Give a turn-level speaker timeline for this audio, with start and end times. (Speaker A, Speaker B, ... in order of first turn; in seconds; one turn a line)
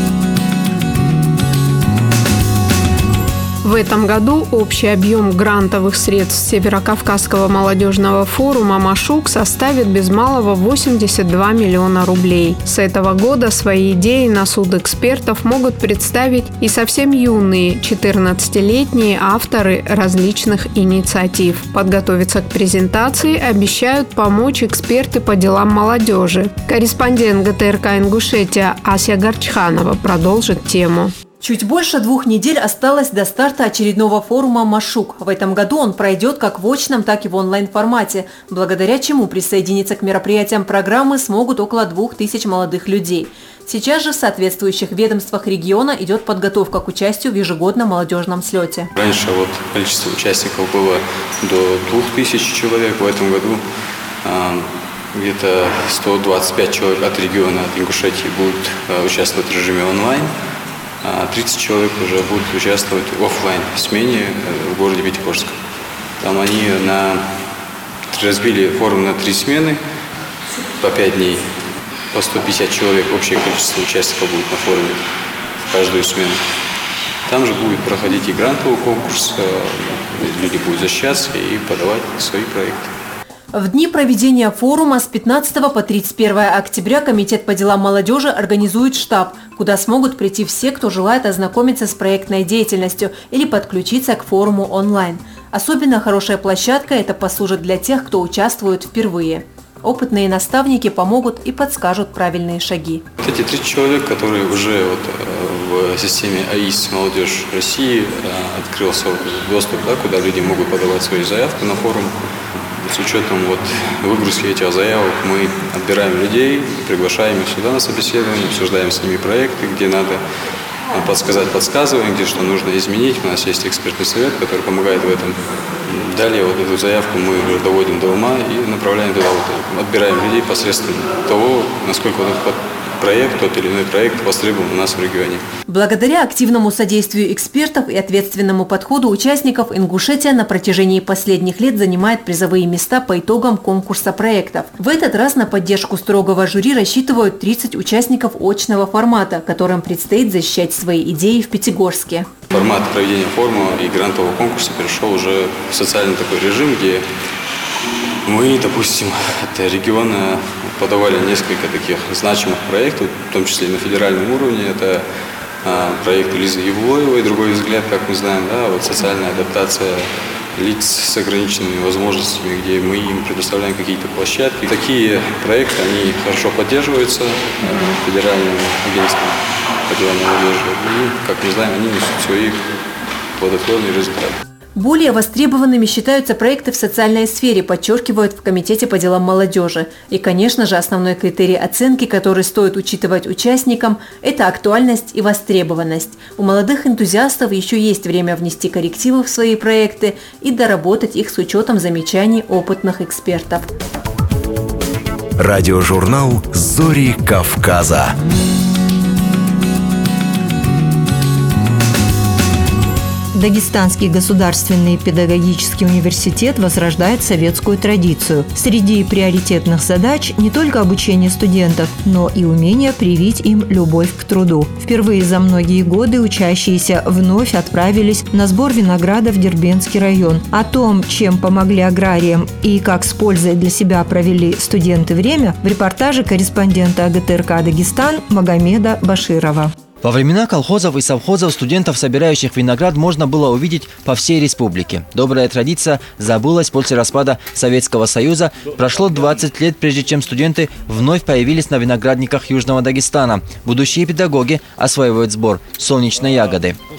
Speaker A: 3.6-31.1
Speaker B: 31.4-48.9
Speaker C: 48.9-53.6
Speaker C: 54.2-60.3
Speaker C: 61.0-65.5
Speaker C: 66.2-67.3
Speaker C: 68.1-69.8
Speaker C: 70.8-71.5
Speaker C: 72.1-75.0
Speaker C: 75.7-76.4
Speaker C: 77.3-82.9
Speaker B: 83.5-103.0
Speaker C: 103.2-120.2
Speaker C: 120.9-135.4
Speaker B: 135.7-152.3
Speaker C: 152.5-157.1
Speaker C: 158.3-165.0
Speaker C: 165.6-182.6
Speaker C: 183.4-184.4
Speaker B: 184.8-203.7
Speaker D: 205.4-208.2
Speaker E: 213.3-239.7
Speaker F: 240.0-256.8